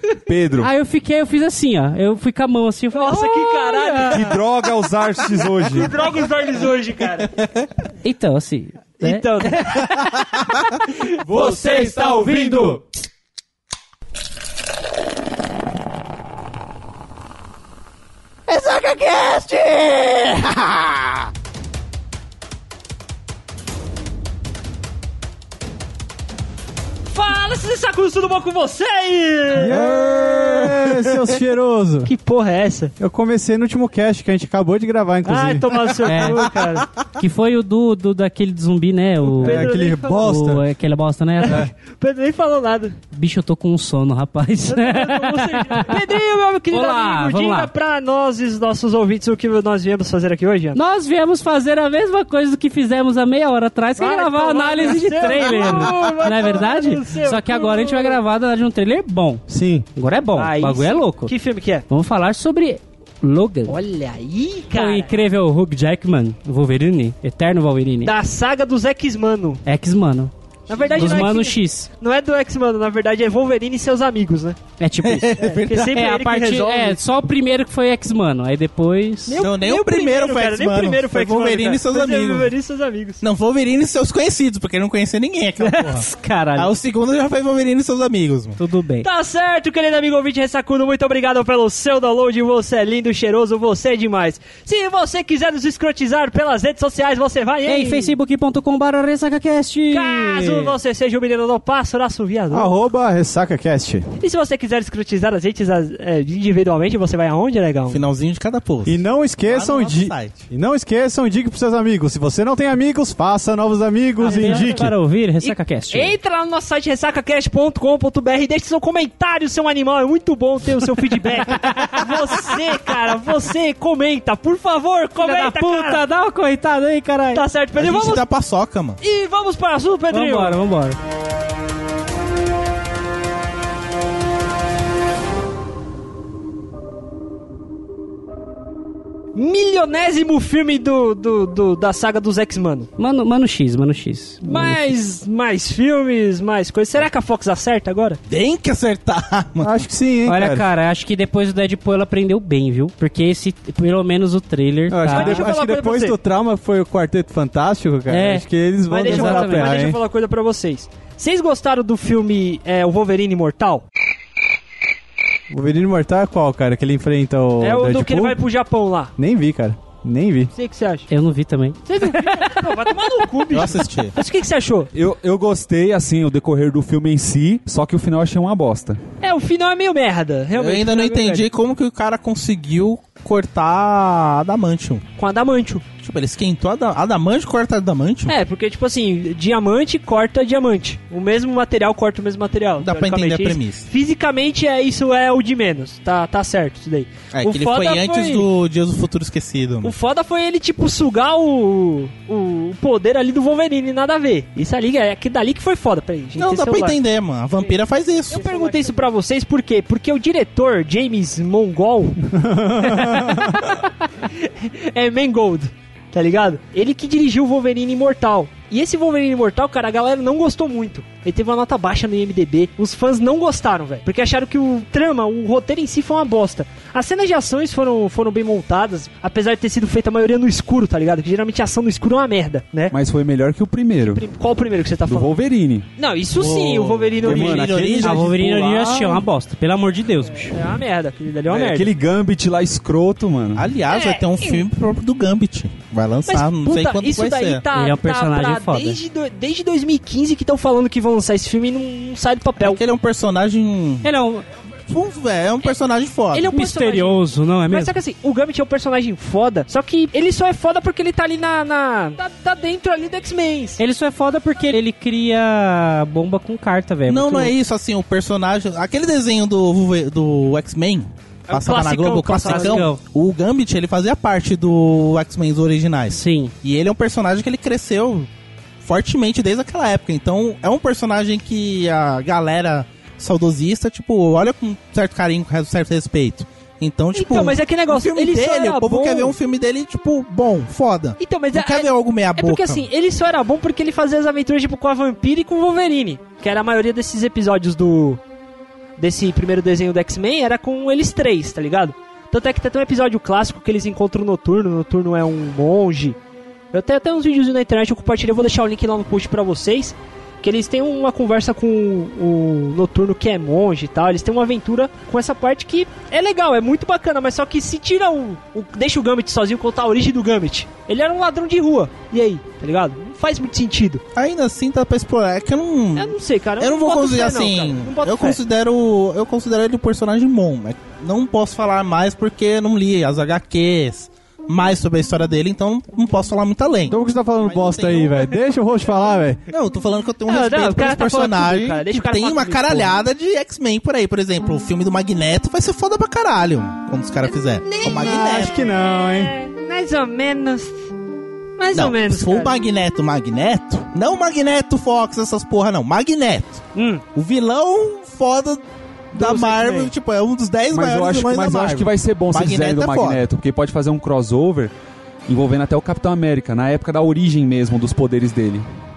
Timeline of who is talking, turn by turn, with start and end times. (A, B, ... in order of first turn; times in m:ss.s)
0:00.2-0:00.7 A
0:00.6-0:04.2 B
0:03.0-0:04.4 C
0:04.1-0:06.0 A
0:05.7-0:07.4 C
0:08.0-0:09.3 B
0:09.0-0:12.8 C
0:11.5-0:12.4 A
0:18.5-0:21.3 D
0:27.1-0:31.2 C
0:29.5-0:32.1 E
0:32.0-0:32.9 C
0:33.0-0:36.8 E
0:35.2-0:36.9 C
0:36.1-0:36.3 B
0:37.2-0:41.7 B
0:39.4-0:40.2 C
0:39.4-0:40.6 E
0:41.4-0:43.0 C
0:43.1-0:46.0 B
0:44.7-0:50.8 C
0:46.7-0:47.7 B
0:50.7-0:59.4 B
0:54.0-0:58.2 C
0:59.5-0:59.9 E
0:59.9-1:01.3 B
1:00.4-1:01.8 C
1:01.9-1:03.8 B
1:03.7-1:05.1 C
1:04.7-1:08.1 B
1:08.0-1:09.6 C
1:09.6-1:10.3 B
1:10.7-1:14.6 C
1:10.7-1:11.3 D
1:10.9-1:11.9 B
1:14.8-1:19.4 B
1:15.0-1:16.0 D
1:15.4-1:17.0 C
1:19.3-1:23.2 C
1:19.4-1:22.5 D
1:23.2-1:28.6 D
1:25.6-1:26.7 B
1:28.6-1:29.1 B
1:29.0-1:38.1 C
1:37.6-1:40.7 B
1:39.9-1:42.7 C
1:42.5-1:44.0 E
1:44.2-1:48.0 C
1:47.9-1:50.4 D
1:48.8-1:54.9 E
1:54.2-1:56.1 B
1:54.2-1:54.6 C
1:55.4-2:06.0 C
2:01.4-2:02.5 B
2:05.2-2:07.4 B
2:07.3-2:08.2 C
2:07.8-2:09.0 D
2:09.0-2:10.6 C
2:10.1-2:11.0 B
2:19.3-2:22.9 C
2:23.0-2:24.9 B
2:24.5-2:28.2 C
2:28.3-2:29.7 D
2:29.6-2:30.7 E
2:30.2-2:35.4 B
2:34.9-2:40.0 E
2:35.1-2:36.2 C
2:38.1-2:39.8 B
2:39.0-2:43.8 C
2:45.5-2:48.4 E
2:47.6-2:49.1 C
2:49.2-2:50.5 E
2:50.5-2:51.1 C
2:51.1-2:52.6 B
2:51.9-2:54.9 C
2:53.5-2:54.1 D
2:54.9-2:59.0 A
2:59.2-3:01.5 C
3:00.5-3:05.0 D
3:05.2-3:05.8 C
3:06.0-3:08.4 D
3:08.3-3:18.5 C
3:12.8-3:13.9 D
3:17.3-3:19.9 D
3:19.8-3:27.0 C
3:26.4-3:28.6 D
3:28.3-3:52.9 C
3:32.3-3:33.6 E
3:52.9-3:54.2 A
3:54.0-3:55.3 C
3:55.1-3:55.9 A
3:56.0-3:57.8 C
3:56.4-3:59.2 D
3:57.2-3:58.4 A
3:58.0-4:00.6 B
4:00.4-4:01.9 C
4:01.5-4:03.7 A
4:03.6-4:07.6 D
4:03.9-4:04.6 C
4:06.2-4:12.8 C
4:07.7-4:09.0 B
4:12.6-4:14.1 D
4:14.0-4:14.4 B
4:14.8-4:16.5 D
4:16.3-4:23.8 C
4:16.5-4:18.0 B
4:23.8-4:27.5 B
4:27.1-4:38.3 D
4:31.5-4:32.8 C
4:32.4-4:33.0 B
4:36.1-4:36.5 B
4:38.8-4:52.8 D
4:47.1-4:49.4 C
4:51.2-4:58.2 C
4:59.0-5:06.2 C
5:06.7-5:24.0 C
5:24.1-5:38.3 D
5:26.0-5:28.4 C
5:36.9-5:39.4 E
5:39.5-5:48.6 D
5:40.2-5:42.9 C
5:47.2-5:50.9 C
5:47.8-5:49.3 E
5:51.6-5:52.6 C
5:51.7-5:56.6 D
5:56.7-5:57.0 C
5:57.1-6:03.2 D
5:59.1-5:59.9 C
6:00.7-6:04.7 A
6:05.3-6:08.6 A